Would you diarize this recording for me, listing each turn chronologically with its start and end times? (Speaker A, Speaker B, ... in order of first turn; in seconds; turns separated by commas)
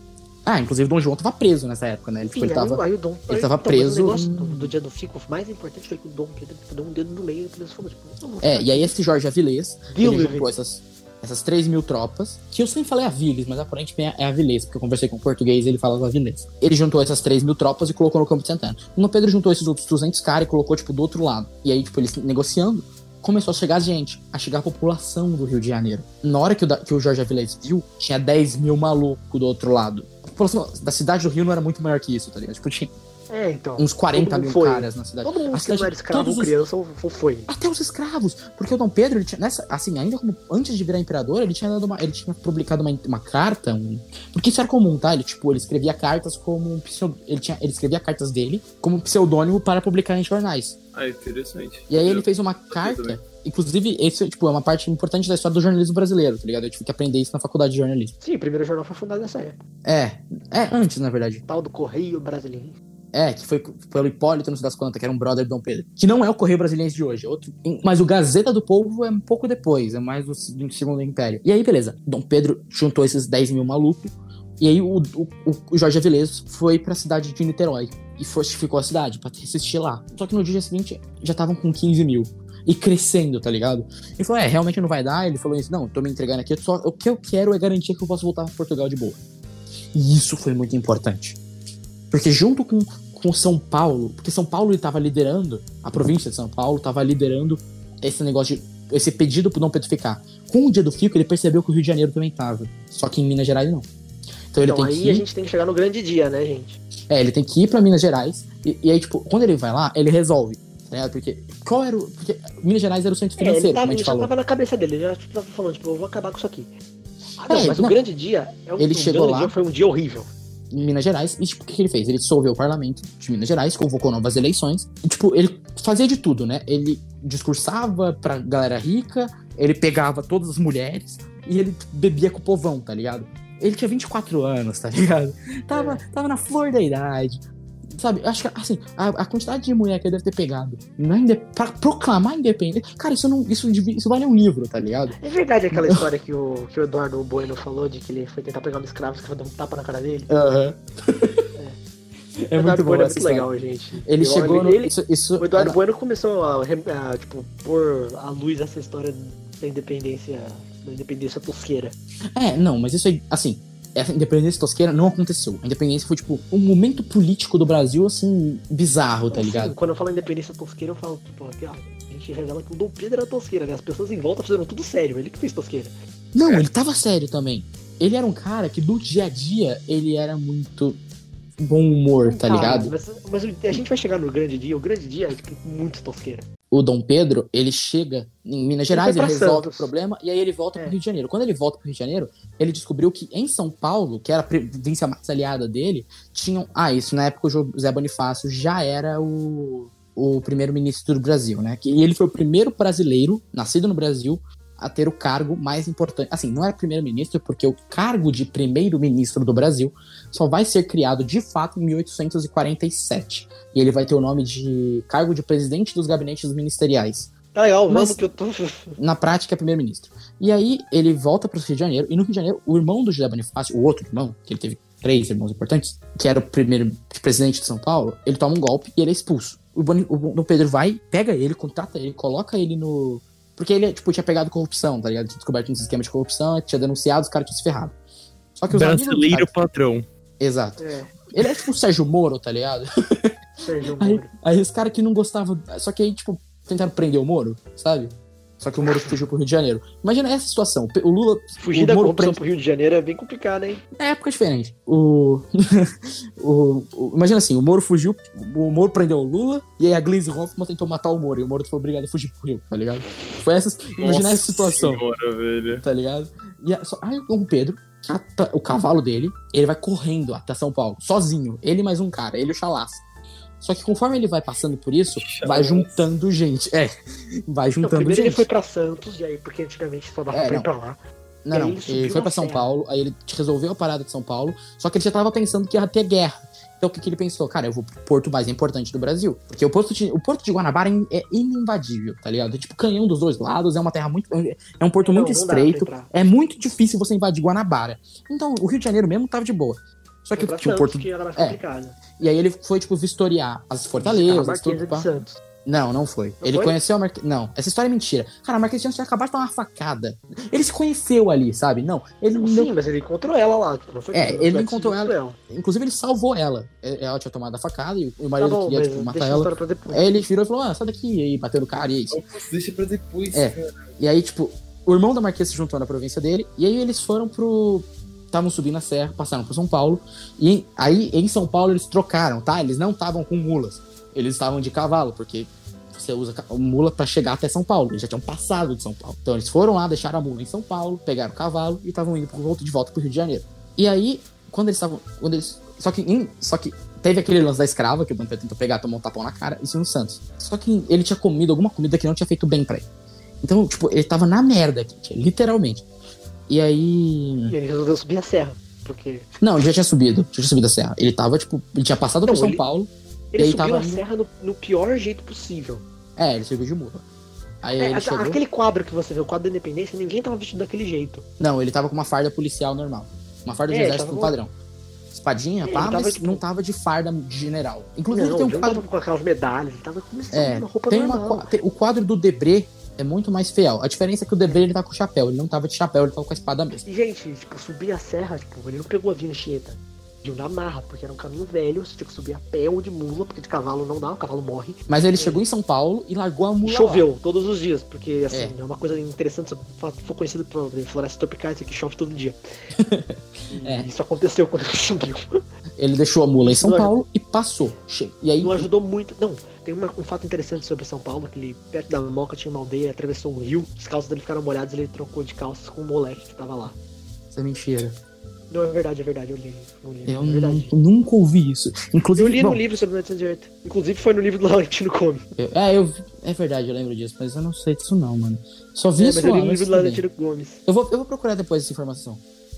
Speaker A: 0.4-4.7, Speaker B: 2.3-8.9, Speaker A: 8.4-32.9, Speaker B: 9.9-10.5, Speaker B: 33.3-37.5, Speaker A: 33.8-36.5, Speaker A: 37.5-50.8, Speaker C: 50.9-53.2, Speaker A: 51.9-58.1, Speaker B: 58.2-59.6, Speaker A: 59.8-61.4, Speaker B: 61.5-62.8, Speaker A: 63.1-89.2, Speaker A: 89.9-91.4, Speaker A: 92.1-103.9, Speaker A: 104.5-105.2, Speaker B: 104.6-106.8, Speaker A: 107.1-114.3, Speaker B: 113.4-116.7, Speaker B: 117.4-120.3, Speaker A: 117.5-118.0, Speaker A: 118.8-119.5, Speaker A: 120.7-145.2, Speaker B: 135.7-136.0, Speaker B: 145.2-150.3, Speaker A: 145.7-146.0, Speaker A: 150.3-151.4, Speaker A: 152.5-153.5, Speaker B: 152.5-162.0, Speaker A: 154.0-155.8, Speaker A: 162.3-169.7, Speaker B: 169.3-175.9, Speaker A: 176.3-181.0, Speaker A: 181.6-182.9, Speaker B: 182.2-186.4, Speaker A: 186.7-217.3, Speaker B: 188.9-189.9, Speaker B: 217.5-219.0, Speaker A: 217.9-218.2, Speaker A: 219.0-237.9, Speaker A: 238.6-239.5, Speaker C: 238.7-240.1, Speaker A: 240.4-243.3, Speaker B: 240.8-241.1, Speaker B: 243.6-244.3, Speaker A: 244.0-252.4, Speaker B: 248.8-249.2, Speaker B: 251.6-253.8, Speaker A: 253.9-265.0, Speaker C: 264.0-265.8, Speaker A: 265.8-273.0, Speaker A: 273.6-276.9, Speaker C: 275.2-276.1, Speaker A: 277.5-278.5, Speaker B: 277.8-281.0, Speaker A: 280.3-280.7, Speaker A: 281.4-305.1, Speaker B: 281.5-282.7, Speaker B: 295.0-296.1, Speaker B: 300.3-302.0, Speaker B: 304.0-305.4, Speaker A: 305.6-312.7, Speaker B: 306.4-306.8, Speaker B: 312.3-315.4, Speaker A: 314.1-322.2, Speaker B: 318.4-320.2, Speaker C: 322.1-323.9, Speaker A: 323.3-352.9, Speaker A: 353.4-355.8, Speaker A: 356.5-357.5, Speaker B: 357.5-359.3, Speaker A: 359.4-364.0, Speaker B: 362.2-362.6, Speaker B: 363.3-365.8, Speaker A: 366.2-367.0, Speaker A: 367.6-368.4, Speaker B: 367.8-371.2, Speaker A: 371.4-374.5, Speaker B: 373.7-374.4, Speaker A: 375.1-378.8, Speaker B: 375.6-376.4, Speaker B: 378.1-381.5, Speaker A: 380.3-386.9, Speaker B: 386.9-395.4, Speaker A: 394.9-397.1, Speaker B: 396.6-402.4, Speaker A: 402.8-403.9, Speaker B: 403.5-405.4, Speaker A: 405.8-408.7, Speaker B: 406.4-407.0, Speaker B: 408.4-416.8, Speaker A: 417.3-418.0, Speaker B: 418.5-420.7, Speaker A: 420.1-422.6, Speaker B: 422.1-425.2, Speaker A: 425.3-430.0, Speaker B: 429.0-430.6, Speaker A: 430.6-432.2